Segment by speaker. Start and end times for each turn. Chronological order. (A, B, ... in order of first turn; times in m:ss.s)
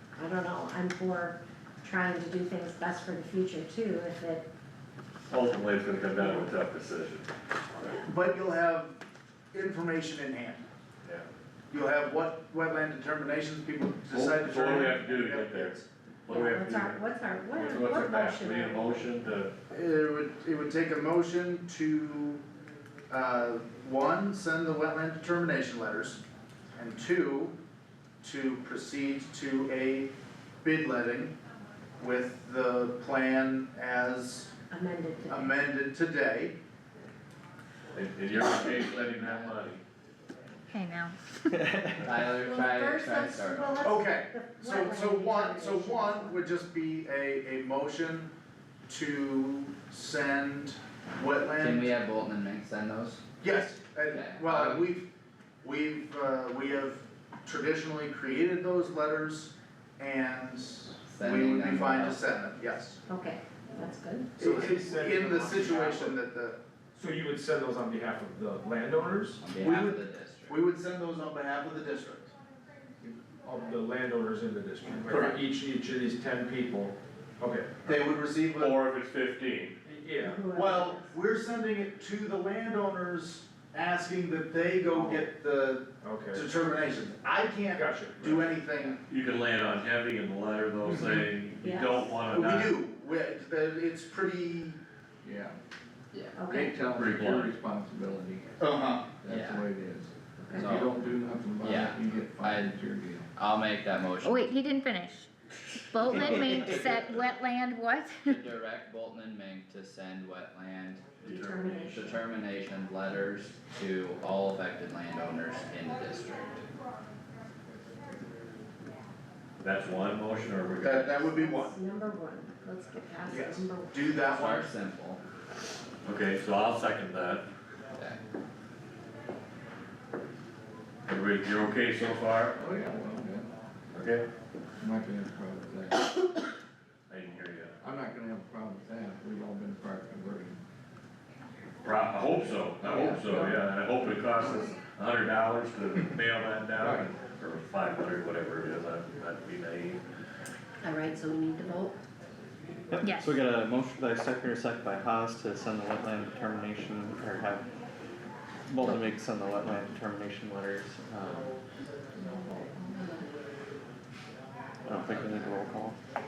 0:00.2-0:04.5 A
0:05.3-0:07.3 B
0:06.2-0:06.5 A
0:08.0-0:09.0 C
0:09.5-0:10.6 C
0:11.7-0:15.9 C
0:14.1-0:19.5 B
0:16.3-0:19.2 A
0:19.7-0:22.4 C
0:23.1-0:26.2 C
0:26.8-0:27.5 C
0:28.2-0:30.1 C
0:30.6-0:31.3 C
0:32.0-0:34.5 C
0:34.7-0:35.6 A
0:35.3-0:36.6 C
0:37.9-0:39.8 B
0:38.8-0:39.1 A
0:40.7-0:41.2 D
0:41.7-0:42.1 E
0:42.0-0:46.5 A
0:42.1-0:43.9 F
0:43.8-0:48.3 C
0:48.9-0:52.0 C
0:51.5-0:53.2 F
0:53.4-0:55.1 C
0:54.1-0:54.9 F
0:55.6-1:03.0 C
1:01.0-1:02.2 F
1:03.1-1:04.3 A
1:04.4-1:06.6 C
1:04.4-1:06.2 G
1:07.0-1:09.5 G
1:09.4-1:10.6 F
1:09.6-1:12.3 C
1:13.0-1:13.7 H
1:13.5-1:17.8 G
1:15.1-1:15.4 C
1:17.8-1:18.8 C
1:18.6-1:19.8 B
1:19.8-1:20.5 G
1:20.2-1:21.0 A
1:20.5-1:29.0 C
1:26.0-1:26.5 G
1:27.8-1:28.6 G
1:29.1-1:32.8 B
1:30.8-1:31.2 C
1:31.6-1:32.1 A
1:32.3-1:34.8 C
1:35.2-1:35.6 H
1:36.4-1:36.8 A
1:36.5-1:38.6 H
1:36.9-1:37.5 B
1:38.6-1:39.2 C
1:39.2-1:43.3 H
1:39.2-1:39.6 F
1:40.4-1:40.7 A
1:40.5-1:40.9 F
1:41.6-1:42.7 F
1:43.4-1:44.6 F
1:44.2-1:45.3 D
1:45.9-1:48.4 D
1:46.1-1:47.1 F
1:48.3-1:51.0 F
1:51.2-1:51.9 B
1:51.3-1:52.2 A
1:51.9-1:56.6 F
1:59.6-2:01.2 B
2:00.8-2:01.8 C
2:01.2-2:04.2 A
2:03.3-2:04.7 C
2:04.3-2:05.2 F
2:06.0-2:07.4 B
2:11.1-2:12.6 B
2:12.6-2:13.5 H
2:13.9-2:14.3 B
2:14.8-2:16.1 H
2:17.1-2:17.7 B
2:17.8-2:20.6 H
2:21.8-2:30.0 B
2:22.9-2:23.2 H
2:26.8-2:27.1 H
2:30.8-2:32.0 A
2:32.9-2:37.6 E
2:33.0-2:33.3 D
2:38.7-2:41.6 E
2:42.2-2:43.3 A
2:44.9-2:46.0 E